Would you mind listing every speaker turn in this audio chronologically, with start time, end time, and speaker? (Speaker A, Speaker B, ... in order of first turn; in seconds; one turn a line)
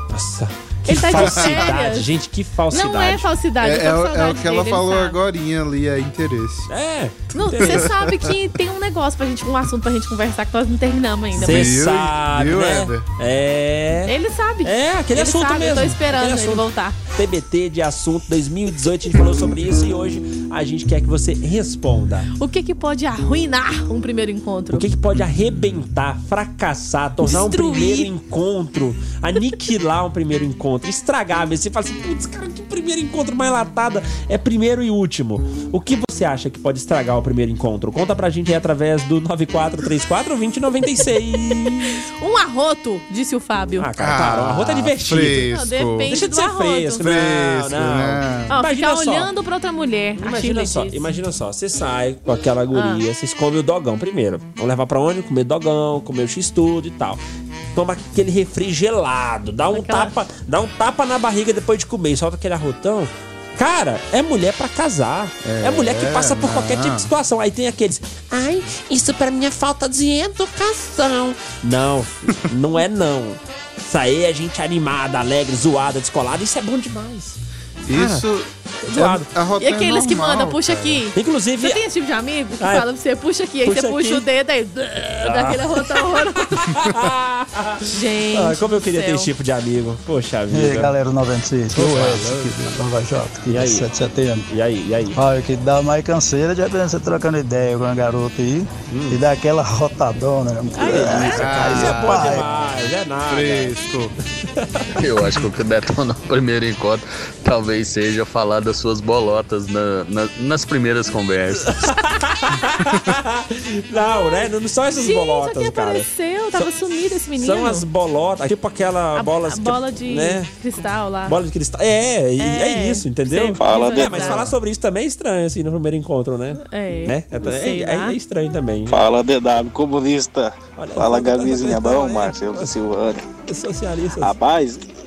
Speaker A: 0.1-3.3
Speaker B: 0.9-2.1
Speaker C: 1.1-1.7
Speaker B: 2.7-5.2
Speaker C: 3.6-6.7
Speaker A: 6.7-7.9
Speaker B: 7.3-11.8
Speaker C: 7.6-8.3
Speaker C: 11.3-13.1
Speaker A: 11.3-22.3
Speaker B: 14.1-17.0
Speaker B: 22.4-24.9
Speaker A: 24.7-42.0
Speaker B: 27.2-28.1
Speaker B: 41.9-43.9
Speaker A: 43.8-45.5
Speaker C: 44.0-46.1
Speaker B: 45.5-47.0
Speaker A: 46.0-49.3
Speaker C: 47.0-48.5
Speaker B: 48.5-51.1
Speaker A: 50.2-57.2
Speaker B: 52.7-53.0
Speaker A: 57.7-77.4
Speaker B: 59.7-60.1
Speaker C: 65.4-67.1
Speaker C: 77.8-81.0
Speaker A: 77.9-78.2
Speaker A: 78.8-79.3
Speaker B: 79.6-86.8
Speaker A: 81.1-81.8
Speaker A: 82.6-82.8
Speaker A: 83.6-84.2
Speaker A: 85.2-90.9
Speaker B: 87.9-89.3
Speaker D: 90.5-94.5
Speaker C: 91.7-92.8
Speaker A: 93.5-93.9
Speaker A: 94.5-95.2
Speaker D: 95.1-102.5
Speaker A: 98.9-99.2
Speaker A: 100.8-103.8
Speaker C: 101.3-102.5
Speaker C: 103.3-104.1
Speaker A: 104.4-104.9
Speaker E: 105.0-111.7
Speaker A: 111.6-116.7
Speaker B: 114.0-117.8
Speaker A: 117.3-120.5
Speaker B: 119.1-121.4
Speaker A: 121.2-129.0
Speaker B: 122.4-124.5
Speaker F: 123.6-124.5
Speaker B: 126.6-128.2
Speaker F: 128.9-133.3
Speaker A: 130.8-132.8
Speaker A: 133.5-134.3
Speaker F: 134.2-134.8